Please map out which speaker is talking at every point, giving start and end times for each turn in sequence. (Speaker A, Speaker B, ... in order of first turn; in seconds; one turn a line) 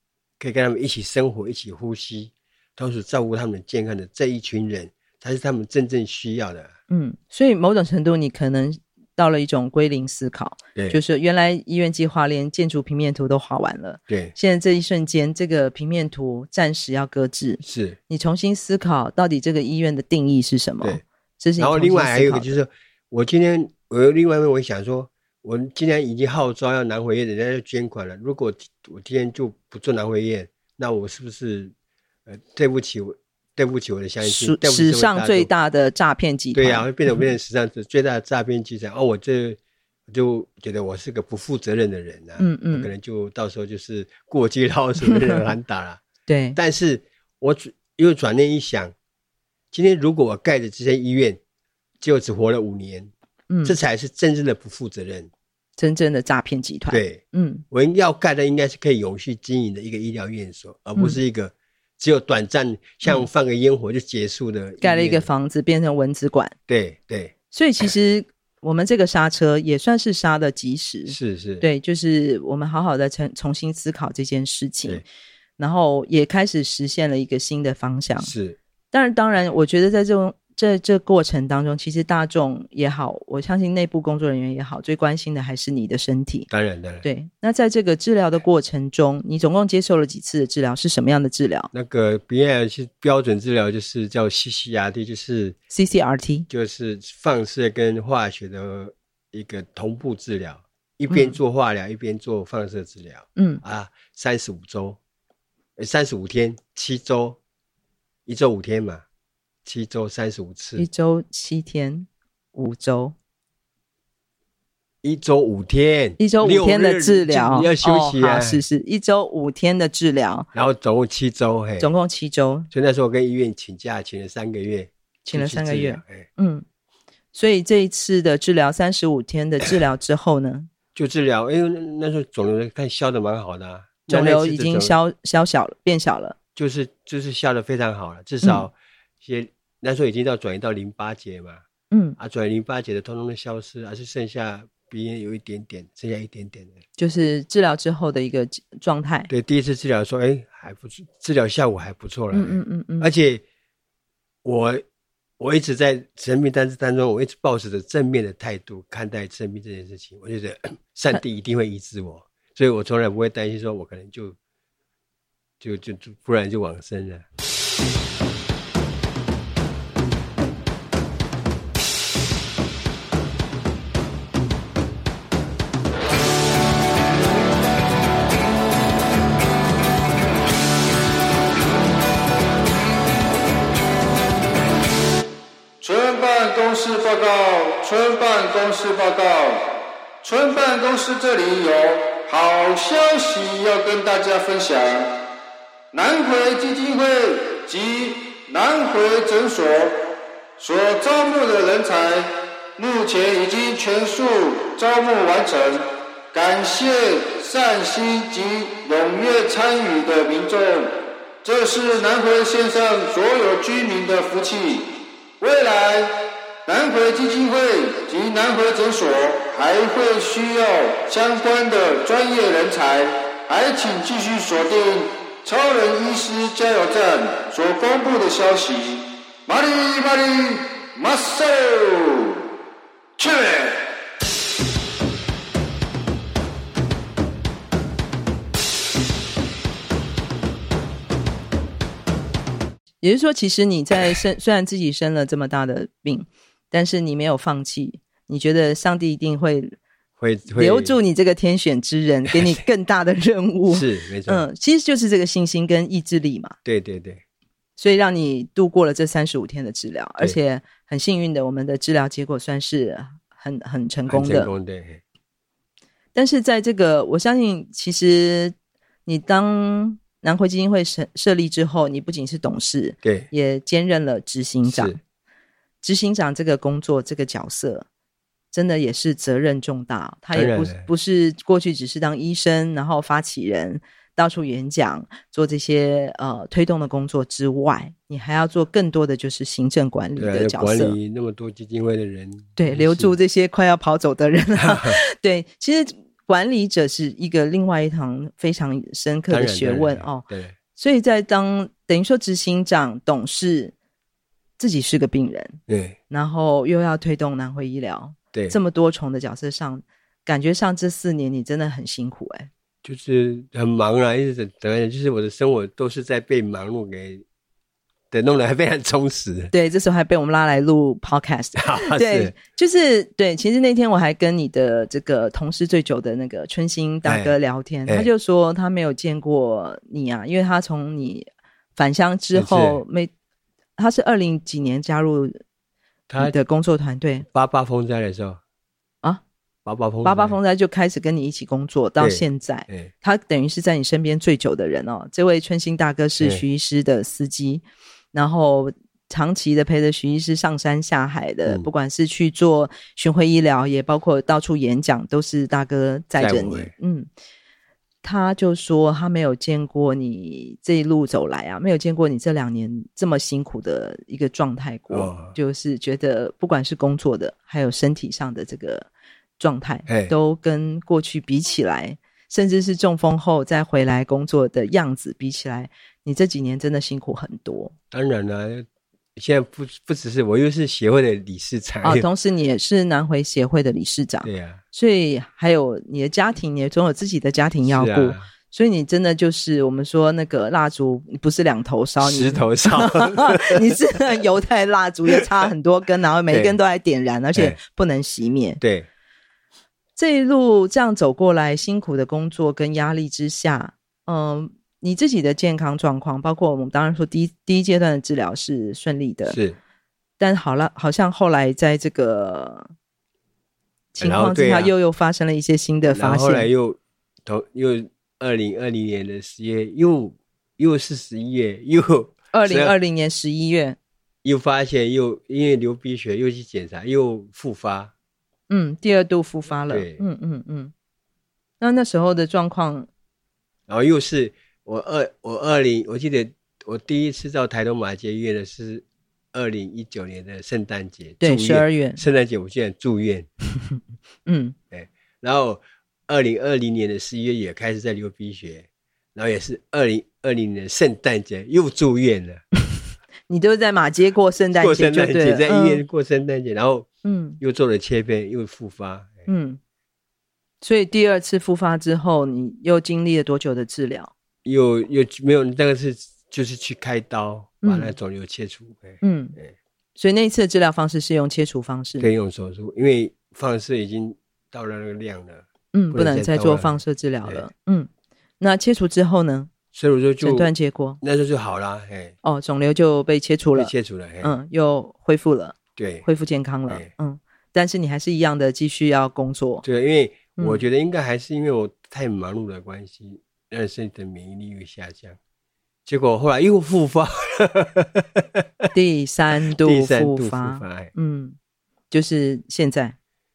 Speaker A: 0.4-6.7
Speaker B: 6.9-22.5
Speaker A: 10.7-11.0
Speaker A: 14.1-14.3
Speaker A: 17.6-18.0
Speaker A: 21.6-31.7
Speaker A: 32.2-35.5
Speaker B: 34.2-37.3
Speaker A: 36.5-46.0
Speaker B: 42.4-42.9
Speaker B: 45.0-45.5
Speaker B: 46.3-46.6
Speaker A: 46.5-48.9
Speaker A: 49.7-51.4
Speaker A: 52.0-53.1
Speaker B: 53.5-53.8
Speaker A: 53.6-55.3
Speaker B: 55.8-57.6
Speaker A: 56.9-65.3
Speaker B: 64.8-66.5
Speaker A: 66.7-67.3
Speaker B: 67.5-75.0
Speaker A: 71.1-71.7
Speaker B: 75.6-78.3
Speaker A: 78.2-78.6
Speaker B: 78.9-86.5
Speaker A: 86.5-87.0
Speaker B: 87.0-91.7
Speaker A: 91.7-95.6
Speaker B: 95.7-96.5
Speaker A: 96.5-105.0
Speaker B: 101.1-101.4
Speaker B: 103.3-103.6
Speaker A: 105.8-107.4
Speaker A: 108.2-109.0
Speaker A: 109.6-110.9
Speaker B: 110.8-113.1
Speaker A: 115.0-118.6
Speaker B: 116.2-120.5
Speaker A: 120.5-121.9
Speaker B: 121.8-122.7
Speaker A: 122.7-126.3
Speaker B: 125.2-126.6
Speaker B: 127.3-130.7
Speaker A: 130.9-134.9
Speaker B: 134.1-136.3
Speaker A: 136.6-141.6
Speaker B: 141.9-142.2
Speaker A: 142.2-146.8
Speaker B: 147.0-149.3
Speaker A: 149.3-153.4
Speaker B: 152.3-153.1
Speaker A: 154.4-154.8
Speaker A: 155.4-164.4
Speaker A: 165.6-167.2
Speaker C: 185.8-189.7
Speaker C: 190.2-195.1
Speaker C: 195.9-200.1
Speaker C: 200.6-232.4
Speaker C: 233.2-233.9
Speaker B: 243.0-249.8
Speaker A: 250.2-250.9
Speaker B: 250.5-256.5
Speaker A: 252.3-252.6
Speaker A: 253.7-254.4
Speaker A: 256.6-257.2
Speaker B: 257.8-264.5
Speaker A: 264.1-265.0
Speaker B: 266.1-268.5
Speaker B: 269.1-275.0
Speaker A: 273.0-273.3
Speaker A: 274.7-275.0
Speaker B: 275.8-277.9
Speaker B: 278.5-290.9
Speaker A: 280.3-280.9
Speaker A: 290.2-293.1
Speaker B: 292.6-303.7
Speaker A: 294.6-295.0
Speaker A: 299.3-300.6
Speaker B: 304.6-312.5
Speaker A: 305.7-306.0
Speaker A: 312.8-317.2
Speaker A: 318.1-319.5
Speaker B: 319.5-333.1
Speaker A: 321.6-322.3
Speaker A: 327.1-327.3
Speaker A: 332.3-332.8
Speaker B: 333.8-335.4
Speaker A: 336.1-336.4
Speaker B: 336.2-337.2
Speaker A: 337.3-338.4
Speaker A: 339.6-340.4
Speaker B: 340.0-347.6
Speaker A: 342.0-342.9
Speaker B: 348.1-357.1
Speaker A: 356.2-356.7
Speaker B: 358.0-368.9
Speaker A: 364.9-365.3
Speaker B: 369.4-377.7
Speaker A: 369.9-370.1
Speaker A: 377.9-382.1
Speaker B: 381.8-398.6
Speaker A: 384.2-384.6
Speaker A: 387.6-388.3
Speaker A: 392.0-393.9
Speaker A: 396.3-396.6
Speaker A: 398.6-398.9
Speaker B: 399.9-409.4
Speaker A: 409.2-409.6
Speaker B: 410.2-412.7
Speaker B: 413.9-416.5
Speaker A: 414.0-414.7
Speaker A: 415.9-422.7
Speaker B: 422.3-423.8
Speaker A: 424.2-427.9
Speaker B: 428.5-430.7
Speaker A: 429.7-430.1
Speaker B: 431.6-432.9
Speaker A: 433.7-443.3
Speaker B: 441.2-442.0
Speaker B: 443.7-444.5
Speaker A: 444.7-452.4
Speaker B: 453.3-455.8
Speaker A: 454.5-456.9
Speaker B: 457.0-457.4
Speaker A: 457.4-459.2
Speaker B: 459.3-459.6
Speaker B: 460.6-464.1
Speaker A: 464.4-469.5
Speaker B: 467.6-467.9
Speaker B: 469.0-469.4
Speaker B: 470.0-472.1
Speaker A: 472.0-477.4
Speaker B: 475.7-477.9
Speaker B: 478.4-479.5
Speaker A: 479.7-482.1
Speaker B: 480.2-481.0
Speaker B: 482.2-489.6
Speaker A: 483.5-484.3
Speaker A: 485.8-486.1
Speaker A: 489.6-495.2
Speaker B: 490.4-490.6
Speaker A: 495.9-498.7
Speaker B: 498.7-501.4
Speaker A: 499.5-500.9
Speaker B: 501.9-502.9